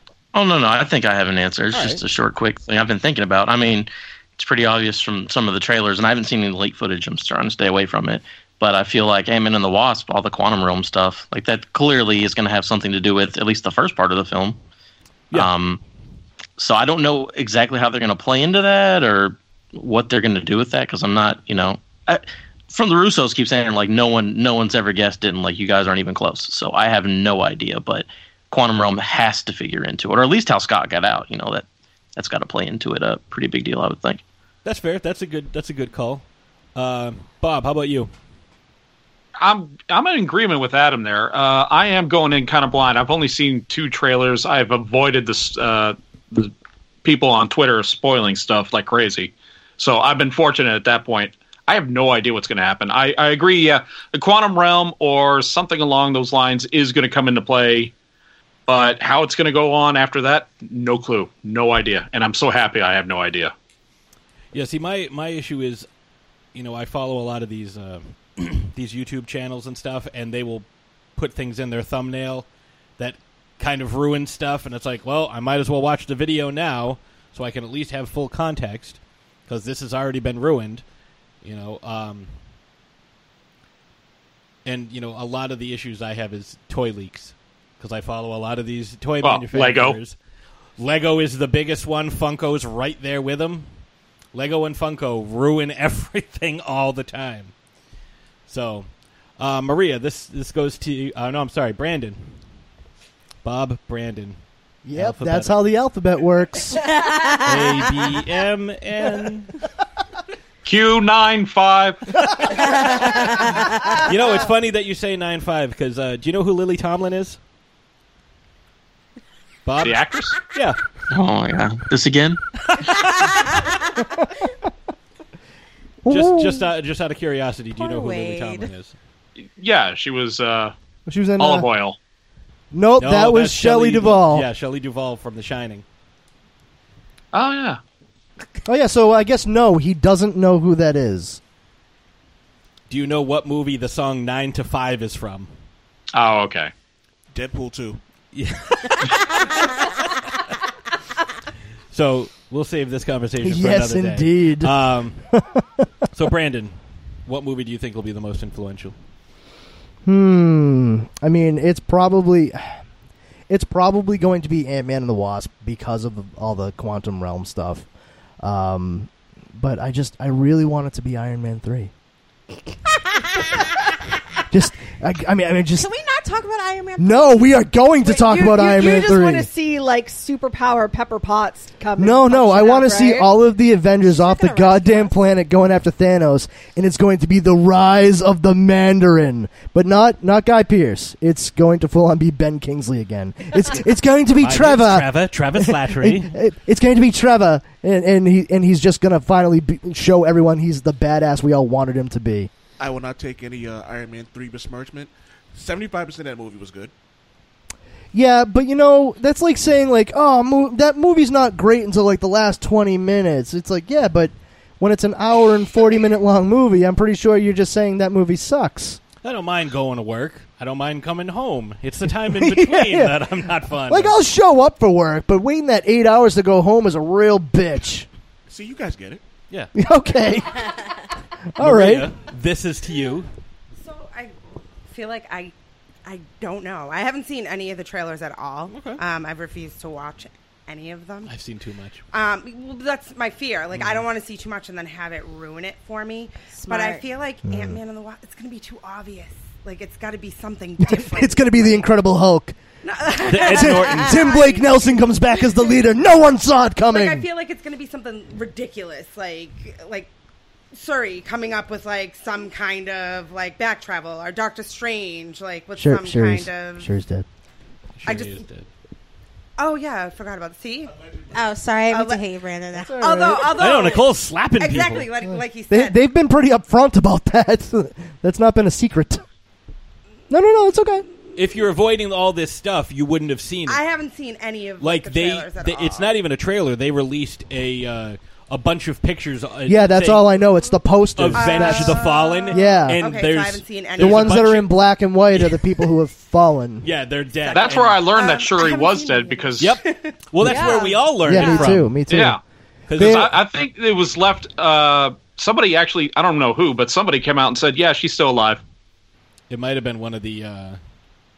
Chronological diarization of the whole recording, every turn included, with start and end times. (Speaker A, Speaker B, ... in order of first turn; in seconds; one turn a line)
Speaker A: 0.3-14.6
Speaker B: 1.7-2.0
Speaker A: 15.3-15.8
Speaker A: 16.6-31.6
Speaker A: 32.1-34.2
Speaker B: 34.6-36.2
Speaker B: 36.8-38.1
Speaker C: 39.4-46.5
Speaker C: 47.0-57.9
Speaker C: 58.7-63.5
Speaker B: 64.5-65.9
Speaker B: 66.5-72.5
Speaker B: 73.0-80.8
Speaker B: 81.4-82.3
Speaker B: 84.6-90.2
Speaker C: 89.2-90.0
Speaker B: 90.8-93.7
Speaker B: 94.3-97.5
Speaker B: 98.5-102.3
Speaker B: 103.4-104.4
Speaker D: 104.8-106.8
Speaker B: 104.9-105.6
Speaker E: 106.9-107.4
Speaker B: 107.4-109.5
Speaker C: 110.6-112.0
Speaker E: 112.9-114.0
Speaker B: 114.0-117.4
Speaker B: 119.6-120.8
Speaker C: 119.8-120.3
Speaker A: 121.1-122.4
Speaker D: 126.0-126.7
Speaker B: 126.1-128.9
Speaker E: 127.8-128.7
Speaker C: 129.4-130.7
Speaker D: 131.1-131.7
Speaker C: 131.4-132.0
Speaker D: 132.7-134.5
Speaker B: 133.0-135.8
Speaker C: 137.3-137.8
Speaker D: 138.7-141.4
Speaker B: 142.9-145.5
Speaker C: 146.1-146.7
Speaker F: 147.3-148.0
Speaker B: 148.3-149.3
Speaker B: 151.9-155.2
Speaker D: 153.4-155.8
Speaker B: 156.1-156.7
Speaker B: 157.2-158.9
Speaker D: 160.0-162.8
Speaker D: 163.5-167.9
Speaker D: 168.4-171.9
Speaker D: 174.5-175.9
Speaker E: 175.7-177.7
Speaker D: 177.0-179.5
Speaker G: 178.0-183.3
Speaker D: 182.0-202.5
Speaker E: 184.0-185.1
Speaker B: 194.4-196.3
Speaker F: 202.8-206.9
Speaker D: 208.1-219.0
Speaker B: 219.2-224.2
Speaker D: 222.2-228.1
Speaker F: 228.5-229.2
Speaker D: 229.7-230.8
Speaker D: 231.5-232.1
Speaker B: 231.6-233.3
Speaker H: 233.7-234.3
Speaker H: 234.8-235.5
Speaker H: 236.0-241.3
Speaker B: 238.7-239.0
Speaker B: 241.2-242.0
Speaker H: 242.1-251.8
Speaker B: 243.7-244.0
Speaker E: 246.5-247.1
Speaker D: 247.4-247.8
Speaker D: 250.8-252.6
Speaker H: 252.8-255.8
Speaker B: 253.2-254.2
Speaker D: 253.4-257.3
Speaker E: 254.1-254.5
Speaker H: 256.9-260.1
Speaker H: 260.7-266.9
Speaker D: 265.8-267.2
Speaker B: 268.0-268.7
Speaker H: 268.0-268.4
Speaker H: 269.6-271.0
Speaker E: 271.3-273.4
Speaker H: 271.9-272.2
Speaker D: 272.7-273.6
Speaker H: 272.8-276.0
Speaker B: 273.6-275.1
Speaker D: 275.2-279.2
Speaker D: 280.3-281.1
Speaker B: 281.4-283.8
Speaker H: 283.6-286.1
Speaker B: 284.8-290.2
Speaker D: 289.7-293.0
Speaker B: 291.1-294.7
Speaker H: 291.3-294.6
Speaker D: 294.0-296.9
Speaker B: 295.3-295.6
Speaker B: 296.8-298.0
Speaker H: 297.4-300.2
Speaker C: 297.5-299.8
Speaker B: 299.6-301.9
Speaker D: 300.4-302.4
Speaker G: 300.4-301.7
Speaker C: 302.1-302.4
Speaker B: 302.9-303.3
Speaker D: 303.0-303.3
Speaker C: 303.0-308.6
Speaker B: 309.5-310.8